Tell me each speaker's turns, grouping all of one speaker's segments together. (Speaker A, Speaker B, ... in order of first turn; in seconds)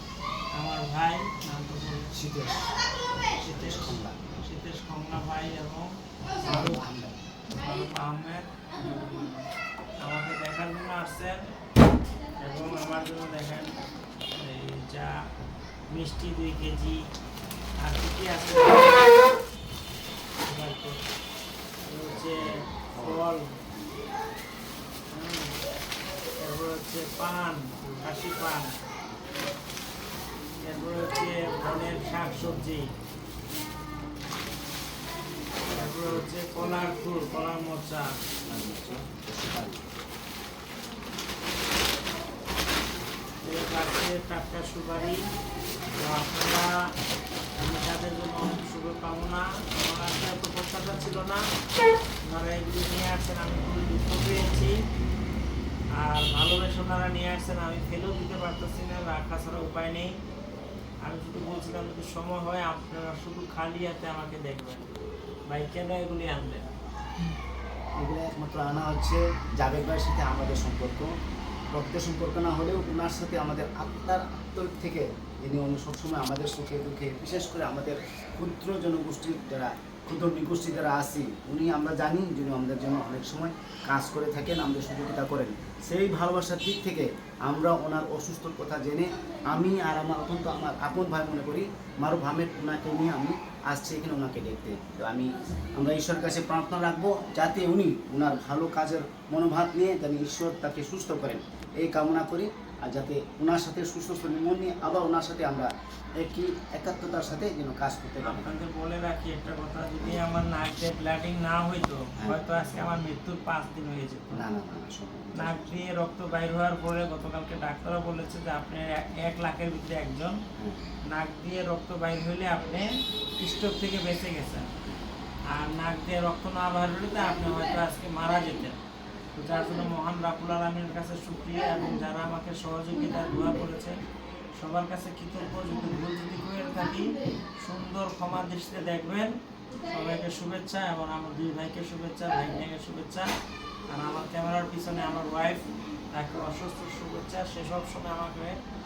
Speaker A: 0.6-2.1, 3.4-5.9, 6.4-6.8, 7.6-9.4, 10.0-11.4, 12.4-13.9, 14.4-15.2, 15.9-17.0, 17.8-19.2, 20.4-21.0, 21.9-23.5, 25.1-25.6, 26.4-28.8, 30.6-32.9, 35.6-38.1, 43.4-45.2, 46.0-46.8, 47.6-51.4, 52.3-54.8, 56.0-60.1, 61.0-64.9, 65.5-66.7, 108.2-114.5, 115.4-120.4, 121.1-122.9, 123.4-124.7, 125.5-128.8, 129.4-134.0, 134.6-143.3, 143.9-148.6
Speaker B: 2.1-2.7, 3.4-4.4, 6.4-7.2, 22.1-23.3, 27.8-28.1, 35.9-36.8, 38.5-39.9, 68.0-71.1, 71.7-108.6, 114.3-115.8, 120.6-121.0, 124.8-125.1